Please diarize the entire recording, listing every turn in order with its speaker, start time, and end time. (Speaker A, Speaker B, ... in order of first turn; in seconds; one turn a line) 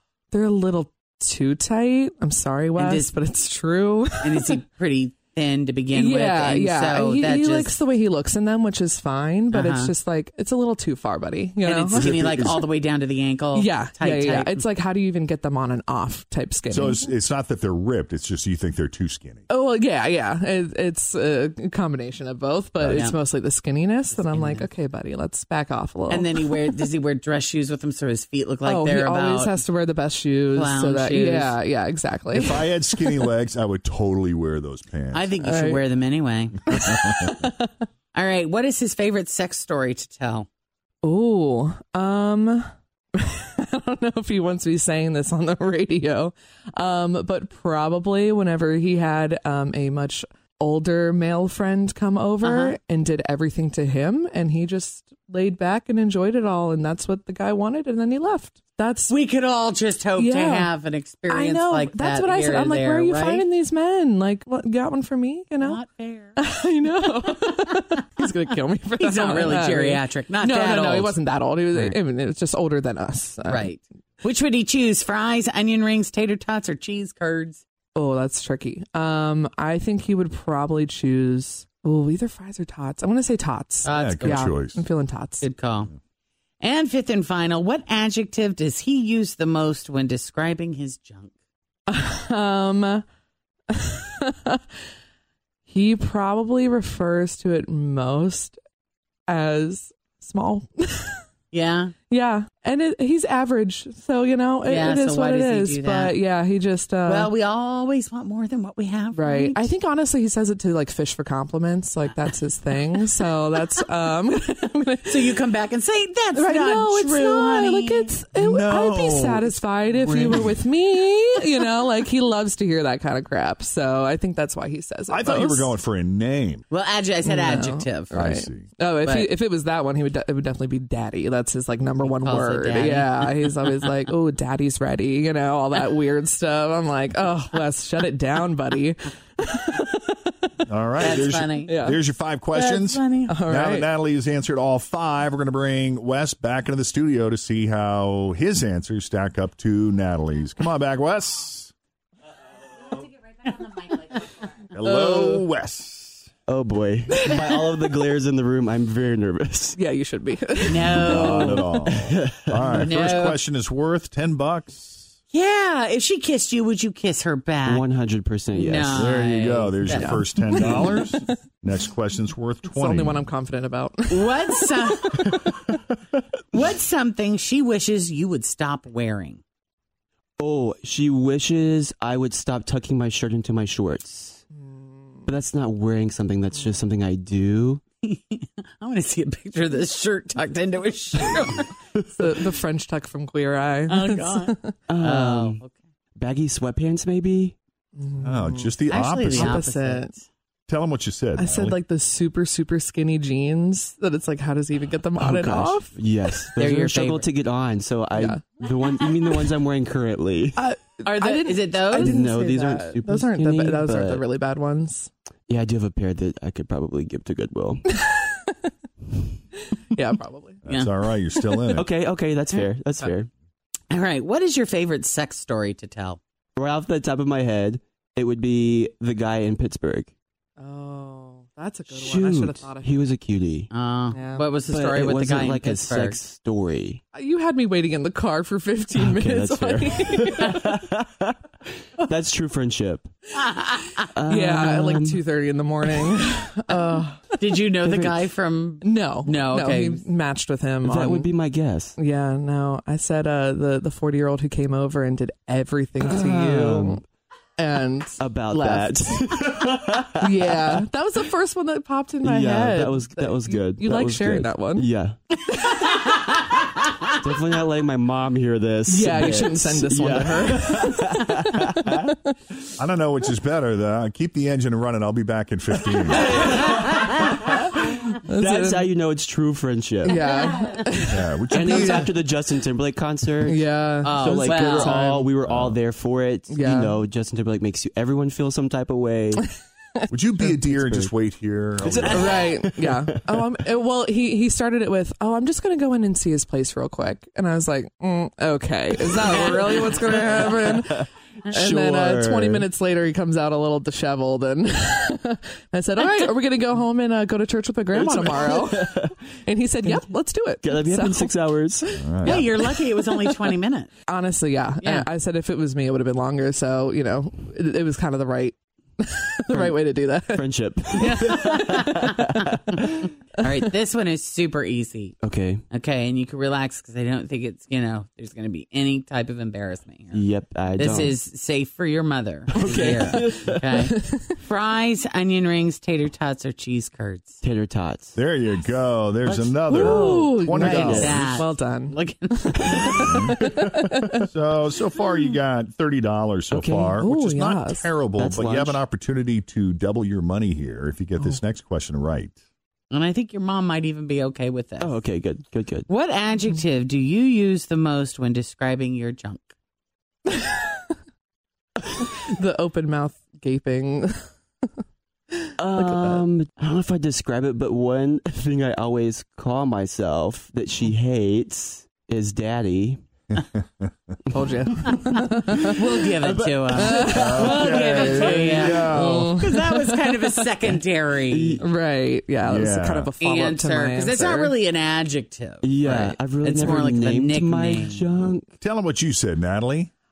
Speaker A: 0.3-4.4
Speaker B: 2.8-3.1
Speaker B: 4.2-7.8
Speaker A: 5.9-12.1
Speaker B: 9.5-9.9
Speaker B: 11.6-14.6
Speaker C: 11.9-12.6
Speaker A: 13.5-17.0
Speaker C: 16.7-19.5
Speaker A: 19.5-26.4
Speaker C: 22.8-23.1
Speaker B: 22.9-23.2
Speaker B: 24.1-24.7
Speaker B: 26.1-29.6
Speaker A: 28.6-33.1
Speaker B: 30.5-31.6
Speaker C: 32.3-35.3
Speaker B: 35.1-37.0
Speaker A: 35.4-35.8
Speaker A: 36.7-37.7
Speaker C: 36.8-37.3
Speaker B: 38.1-40.5
Speaker A: 41.0-59.1
Speaker B: 52.4-52.8
Speaker B: 59.1-63.5
Speaker A: 60.2-60.7
Speaker A: 61.3-65.8
Speaker B: 65.6-66.4
Speaker A: 66.4-73.7
Speaker B: 69.0-71.2
Speaker B: 71.7-72.0
Speaker B: 73.5-77.6
Speaker A: 78.0-85.4
Speaker B: 83.8-84.6
Speaker C: 83.9-84.8
Speaker B: 85.4-85.9
Speaker B: 86.6-91.3
Speaker A: 91.9-93.0
Speaker A: 93.8-94.6
Speaker A: 95.7-98.6
Speaker A: 99.3-101.2
Speaker B: 101.5-101.9
Speaker A: 102.1-107.3
Speaker B: 104.6-106.2
Speaker B: 107.1-109.7
Speaker A: 109.1-115.3
Speaker B: 115.1-118.1
Speaker A: 116.3-125.7
Speaker C: 118.3-120.5
Speaker C: 125.1-126.7
Speaker B: 126.7-128.1
Speaker A: 127.2-140.1
Speaker C: 128.1-128.7
Speaker B: 129.1-129.3
Speaker B: 132.0-133.3
Speaker C: 140.7-151.7
Speaker B: 141.0-141.7
Speaker A: 141.7-142.0
Speaker B: 142.5-143.3
Speaker A: 143.3-143.9
Speaker B: 153.4-154.2
Speaker C: 154.7-156.3
Speaker B: 154.9-155.4
Speaker D: 156.5-159.8
Speaker A: 159.8-161.7
Speaker B: 160.7-161.7
Speaker C: 161.0-165.1
Speaker D: 162.1-162.6
Speaker B: 162.7-163.4
Speaker B: 165.3-167.9
Speaker D: 167.7-169.0
Speaker B: 168.6-171.1
Speaker C: 168.9-173.2
Speaker A: 169.9-171.2
Speaker A: 172.7-174.3
Speaker B: 174.1-175.4
Speaker B: 176.5-179.4
Speaker D: 180.4-184.4
Speaker A: 184.6-185.3
Speaker D: 185.3-187.8
Speaker B: 188.0-191.7
Speaker A: 192.1-194.7
Speaker B: 193.9-195.8
Speaker D: 194.9-195.6
Speaker D: 196.2-197.6
Speaker A: 198.0-198.8
Speaker C: 198.2-199.6
Speaker B: 198.9-200.3
Speaker A: 199.3-200.1
Speaker C: 200.7-201.8
Speaker A: 201.4-205.9
Speaker D: 205.2-210.6
Speaker B: 206.6-207.3
Speaker A: 208.2-208.5
Speaker A: 210.6-215.1
Speaker B: 211.1-212.2
Speaker D: 212.0-214.2
Speaker D: 215.5-217.8
Speaker A: 218.1-218.7
Speaker A: 219.7-220.6
Speaker C: 220.7-221.9
Speaker B: 220.7-220.9
Speaker D: 221.7-223.3
Speaker B: 223.9-226.2
Speaker D: 226.6-230.1
Speaker A: 230.6-233.1
Speaker D: 232.1-233.7
Speaker B: 233.7-236.2
Speaker A: 234.1-234.5
Speaker D: 234.7-237.0
Speaker A: 237.1-240.8
Speaker D: 239.0-241.3
Speaker D: 242.1-243.1
Speaker D: 244.2-245.2
Speaker A: 244.3-247.3
Speaker B: 247.4-250.0
Speaker A: 248.8-251.3
Speaker D: 250.9-251.9
Speaker A: 252.0-257.0
Speaker D: 256.1-256.9
Speaker A: 257.6-259.2
Speaker D: 258.2-260.2
Speaker A: 260.2-264.9
Speaker D: 262.2-265.1
Speaker D: 267.2-271.4
Speaker A: 268.9-272.1
Speaker C: 272.8-276.3
Speaker A: 278.3-278.9
Speaker D: 278.3-280.2
Speaker A: 280.0-282.0
Speaker C: 281.1-282.1
Speaker D: 281.5-283.6
Speaker A: 283.4-285.3
Speaker B: 284.0-285.0
Speaker D: 284.2-289.4
Speaker C: 285.5-285.8
Speaker A: 286.5-287.0
Speaker A: 290.0-290.6
Speaker C: 290.1-292.5
Speaker D: 291.9-292.7
Speaker A: 292.1-311.4
Speaker D: 301.6-302.6
Speaker D: 310.6-311.9
Speaker A: 311.9-312.5
Speaker C: 312.0-312.5
Speaker B: 312.2-313.9
Speaker A: 314.1-320.4
Speaker B: 314.8-315.1
Speaker D: 320.3-321.2
Speaker B: 321.0-325.2
Speaker A: 321.0-322.1
Speaker D: 325.2-325.6
Speaker B: 325.7-337.4
Speaker D: 330.1-331.1
Speaker A: 332.6-333.2
Speaker D: 332.6-333.5
Speaker A: 333.8-334.2
Speaker D: 337.4-338.2
Speaker C: 338.2-341.4
Speaker A: 339.3-344.2
Speaker B: 340.5-343.2
Speaker C: 343.0-343.4
Speaker C: 344.2-352.4
Speaker D: 346.5-346.9
Speaker A: 347.0-347.9
Speaker D: 348.2-348.8
Speaker B: 352.9-355.0
Speaker D: 354.8-355.9
Speaker B: 355.9-359.5
Speaker A: 362.3-364.2
Speaker D: 365.6-373.0
Speaker A: 365.8-366.2
Speaker A: 374.3-375.8
Speaker B: 375.6-381.6
Speaker A: 376.7-380.4
Speaker C: 377.0-379.4
Speaker A: 381.6-384.6
Speaker C: 382.4-383.1
Speaker B: 383.2-388.3
Speaker D: 385.6-388.5
Speaker C: 388.6-389.9